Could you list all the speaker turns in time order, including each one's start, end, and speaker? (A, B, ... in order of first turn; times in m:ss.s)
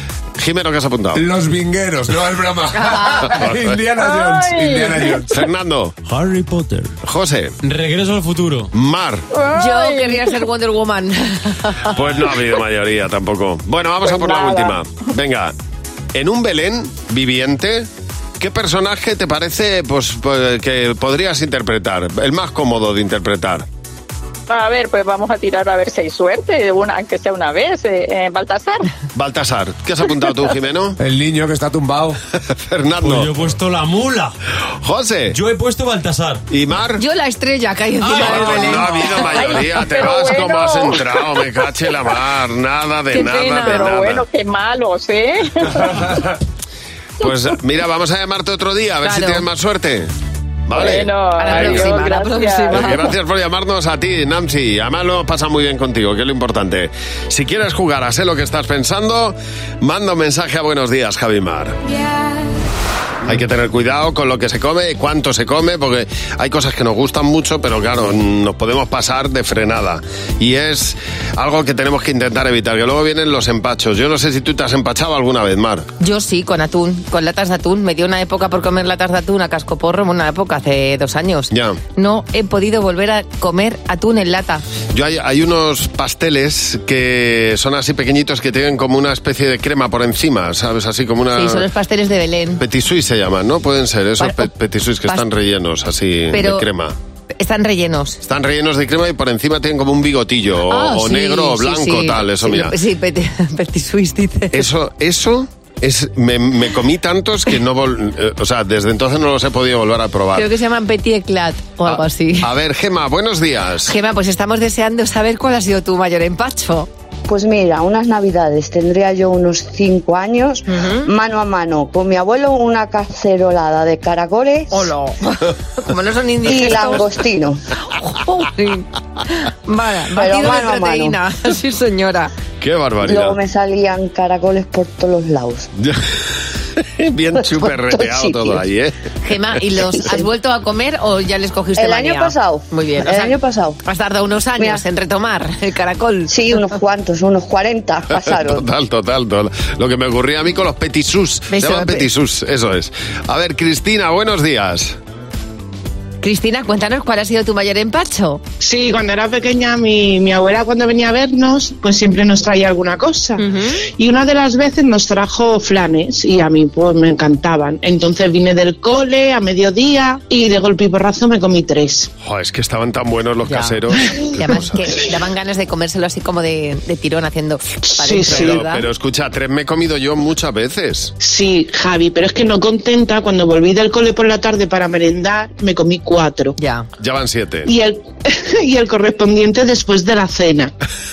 0:00.4-0:01.2 A
0:01.1-0:05.3 B
0:02.7-0:03.3 C
0:03.2-0:03.8 A
0:04.0-0:05.5 D
0:05.3-0:05.9 A
0:06.1-0:06.9 E
0:07.0-0:07.5 A
0:07.6-0:08.7 E
0:08.7-0:09.2 A
0:09.3-0:10.3 D
0:09.5-0:11.9 C
0:11.9-0:15.5 A
0:14.0-0:14.8 D
0:16.1-0:17.9 A
0:18.4-0:23.6 A
0:24.5-0:28.9 D
0:29.1-0:31.0 A
0:31.0-0:32.2 B
0:32.5-0:33.3 A
0:33.0-0:34.3 E
0:34.8-0:35.4 A
0:35.3-0:36.4 E
0:36.5-0:37.0 A
0:37.0-0:39.3 C
0:38.0-0:44.2 A
0:39.0-0:41.1 D
0:43.1-0:43.9 C
0:43.3-0:46.1 D
0:47.2-0:50.1 A
0:49.0-0:49.4 C
0:50.7-0:52.0 A
0:50.7-0:53.0 D
0:51.4-0:53.1 C
0:52.7-1:01.8 A
1:03.2-1:15.9 A
1:16.0-1:24.6 C
1:21.5-1:21.8 A
1:24.9-1:31.7 A
1:31.3-1:32.6 C
1:32.6-1:37.0 A
1:34.2-1:34.5 C
1:36.3-1:36.6 C
1:37.4-1:38.2 C
1:38.2-1:42.7 A
1:40.7-1:44.6 C
1:44.5-1:50.5 A
1:50.3-1:52.5 C
1:51.8-1:53.9 A
1:53.9-1:56.9 C
1:57.3-2:04.7 F
2:00.7-2:01.1 C
2:04.7-2:07.1 C
2:06.4-2:07.6 F
2:08.0-2:12.3 C
2:10.2-2:11.2 F
2:12.6-2:13.4 A
2:13.0-2:15.7 F
2:15.8-2:16.2 A
2:16.8-2:18.9 A
2:17.9-2:18.6 F
2:19.2-2:26.4 C
2:21.8-2:23.8 F
2:24.6-2:24.8 F
2:26.3-2:28.6 F
2:28.1-2:35.0 A
2:31.5-2:32.0 C
2:36.2-2:38.4 C
2:38.6-2:43.4 G
2:43.4-2:43.8 C
2:44.0-2:52.1 G
2:52.2-2:54.9 A
2:53.5-2:53.7 C
2:54.4-2:58.8 C
2:57.8-2:58.6 G
2:58.2-3:01.1 A
3:01.2-3:06.6 G
3:06.6-3:06.8 C
3:07.0-3:07.7 A
3:07.6-3:10.7 G